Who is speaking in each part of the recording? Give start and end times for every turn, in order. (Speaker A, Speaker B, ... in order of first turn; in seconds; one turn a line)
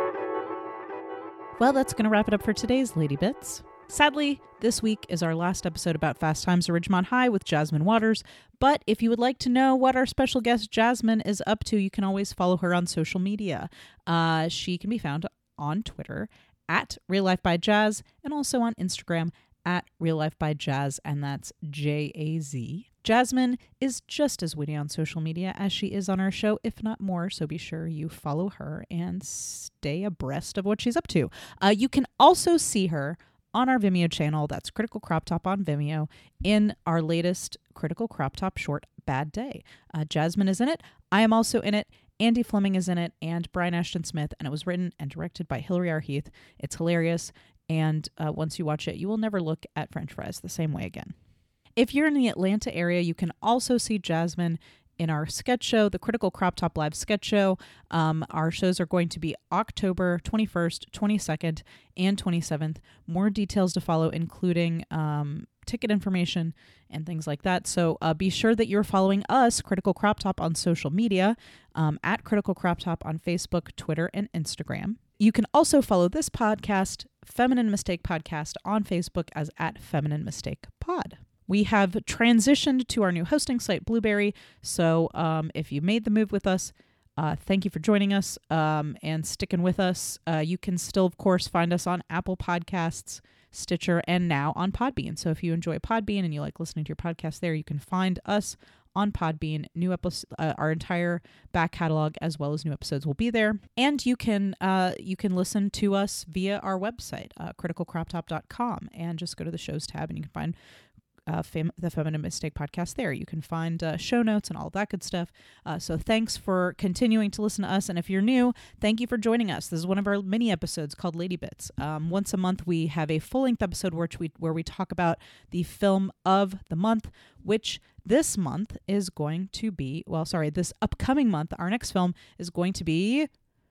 Speaker A: 1.6-51.1
Speaker A: 51.8-110.6
Speaker A: 111.3-133.3